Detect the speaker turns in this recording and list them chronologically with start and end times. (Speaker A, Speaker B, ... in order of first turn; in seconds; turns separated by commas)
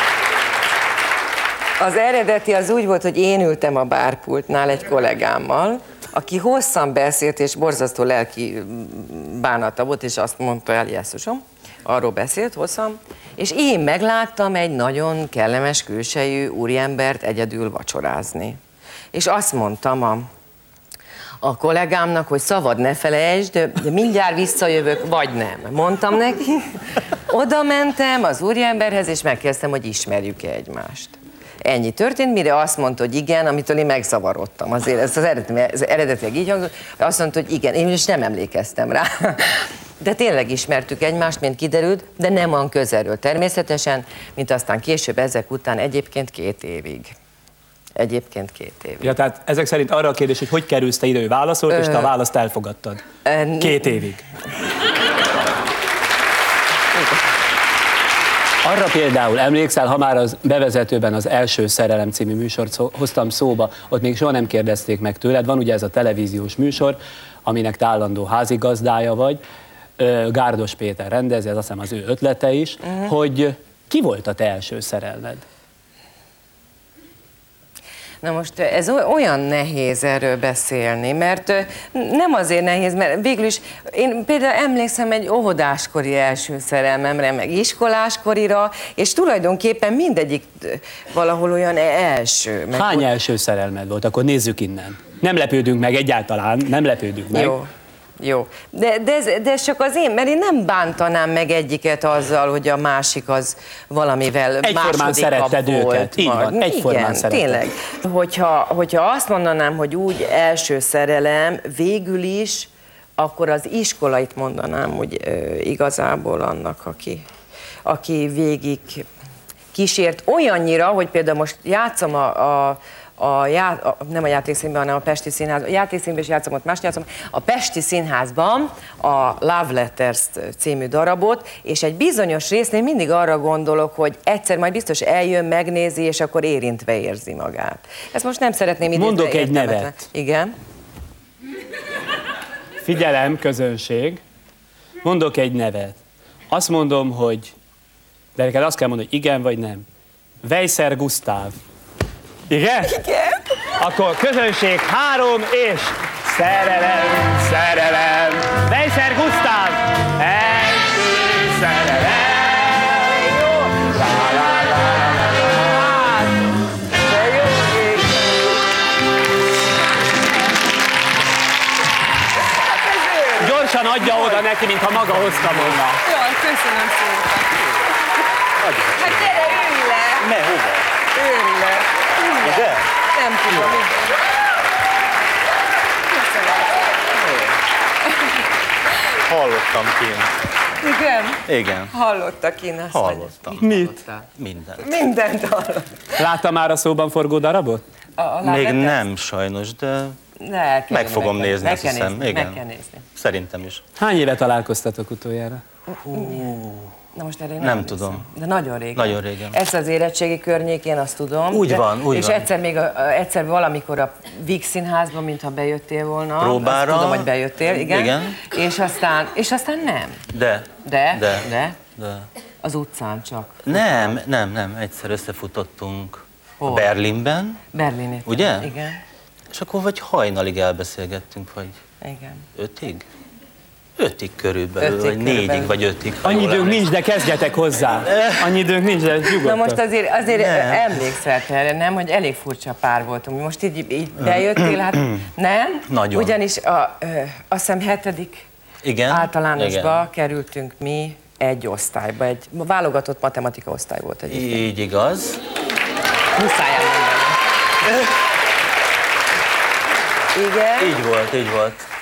Speaker A: 1.8-18.6, Speaker A: 19.1-20.3, Speaker A: 21.4-47.1, Speaker A: 48.0-49.1, Speaker B: 49.0-53.0, Speaker A: 51.7-52.1, Speaker A: 53.2-54.0, Speaker B: 53.6-54.2, Speaker B: 58.6-69.4, Speaker B: 70.0-75.4, Speaker A: 78.2-93.1, Speaker B: 92.7-97.5, Speaker A: 97.3-97.7, Speaker A: 98.2-117.2, Speaker B: 104.6-107.6, Speaker A: 117.8-119.0, Speaker A: 119.7-140.5, Speaker B: 138.9-139.9, Speaker B: 142.8-144.2, Speaker B: 145.0-146.0, Speaker B: 146.5-147.5, Speaker B: 148.3-149.8, Speaker B: 150.4-151.6, Speaker B: 152.5-153.0, Speaker A: 152.8-153.6, Speaker B: 153.7-163.2, Speaker A: 163.4-163.7, Speaker B: 163.7-165.9, Speaker A: 165.5-166.2, Speaker A: 166.9-168.4, Speaker A: 172.6-174.4, Speaker B: 173.4-176.0, Speaker A: 176.0-177.9, Speaker A: 178.8-180.3, Speaker C: 180.2-181.0, Speaker A: 181.0-184.2, Speaker C: 182.4-182.9, Speaker A: 186.2-187.4, Speaker C: 189.2-190.3, Speaker A: 190.8-194.3, Speaker C: 191.4-191.9, Speaker C: 192.9-193.8, Speaker B: 193.6-193.9, Speaker C: 194.3-195.0, Speaker A: 194.8-196.2, Speaker B: 196.2-197.8, Speaker A: 198.2-199.0, Speaker C: 198.4-200.2, Speaker A: 200.4-203.1, Speaker C: 200.9-202.6, Speaker C: 203.1-203.8, Speaker B: 204.0-205.6, Speaker A: 206.1-206.5, Speaker C: 206.1-206.9, Speaker A: 207.1-220.2, Speaker C: 207.6-208.2, Speaker C: 208.9-209.6, Speaker C: 211.5-212.5, Speaker C: 216.4-218.6, Speaker C: 220.3-222.3, Speaker A: 220.8-221.8, Speaker A: 222.6-224.2, Speaker C: 223.6-227.6, Speaker A: 226.6-226.9, Speaker A: 227.7-229.0, Speaker C: 228.2-228.7, Speaker C: 229.5-231.8, Speaker A: 232.0-232.4, Speaker C: 232.6-233.0, Speaker C: 234.0-236.9, Speaker A: 234.8-235.8, Speaker B: 236.2-239.8, Speaker C: 238.1-238.5, Speaker A: 239.4-248.4, Speaker C: 240.3-241.0, Speaker C: 244.3-245.2, Speaker C: 245.9-246.4, Speaker C: 248.8-250.0, Speaker A: 249.0-254.7, Speaker C: 254.3-255.4, Speaker A: 256.3-257.4, Speaker A: 260.3-261.0, Speaker C: 260.8-261.8